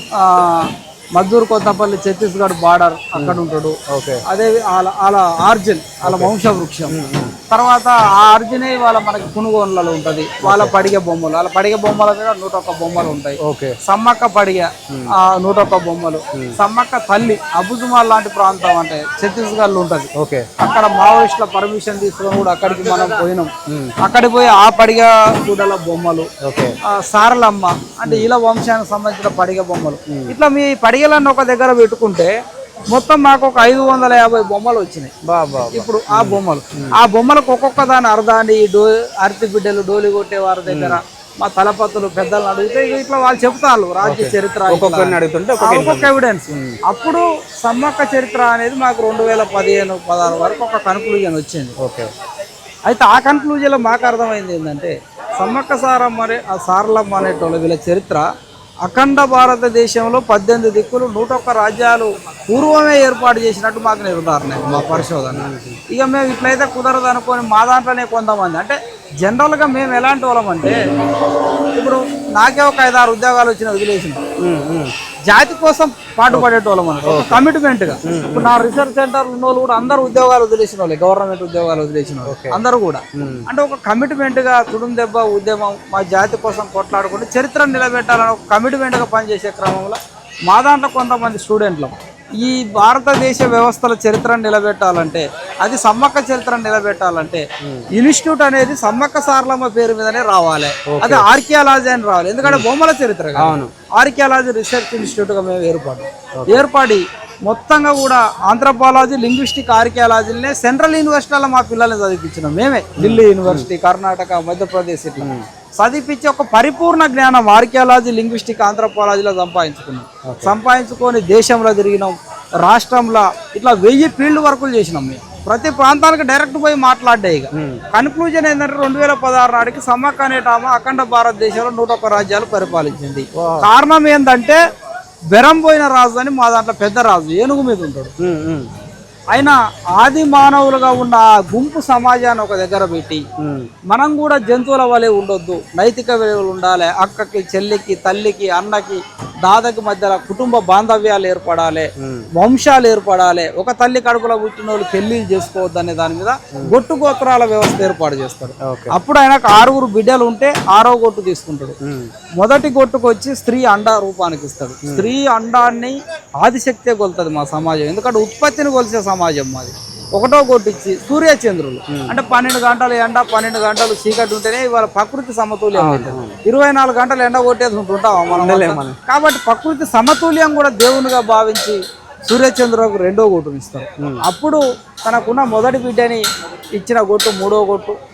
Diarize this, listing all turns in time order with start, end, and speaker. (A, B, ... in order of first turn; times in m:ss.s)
0:00.1-0:06.9 A
0:03.1-0:04.2 B
0:06.0-0:06.3 B
0:06.9-0:07.3 B
0:07.5-0:23.5 A
0:10.4-0:10.8 B
0:13.4-0:13.8 B
0:20.1-0:20.5 B
0:23.7-0:23.9 B
0:24.0-0:26.3 A
0:26.4-0:26.7 B
0:26.9-0:32.4 A
0:30.1-0:30.3 B
0:32.9-0:35.1 A
0:35.2-0:37.0 B
0:35.7-0:51.7 A
0:40.7-0:41.0 B
0:44.0-0:46.8 B
0:51.8-0:52.1 B
0:52.8-0:58.2 A
0:58.8-1:10.8 A
1:04.6-1:05.8 B
1:11.7-1:14.2 A
1:14.4-1:14.9 B
1:15.3-2:14.6 A
1:17.0-1:17.4 B
1:18.0-1:18.5 B
1:22.2-1:22.6 B
1:23.1-1:23.4 B
1:37.6-1:37.9 B
1:40.9-1:41.2 B
1:43.4-1:43.7 B
1:46.4-1:46.7 B
1:53.0-1:53.7 B
1:55.2-1:55.5 B
2:00.2-2:00.5 B
2:07.5-2:07.8 B
2:13.3-2:13.7 B
2:15.3-2:18.1 A
2:18.2-2:18.7 B
2:19.3-2:23.2 A
2:23.4-2:23.7 B
2:23.9-2:41.8 A
2:32.0-2:32.3 B
2:38.6-2:38.9 B
2:41.8-2:42.1 B
2:42.4-3:06.2 A
2:51.9-2:52.1 B
2:55.8-2:56.4 B
2:58.3-2:59.0 B
3:06.8-3:08.0 A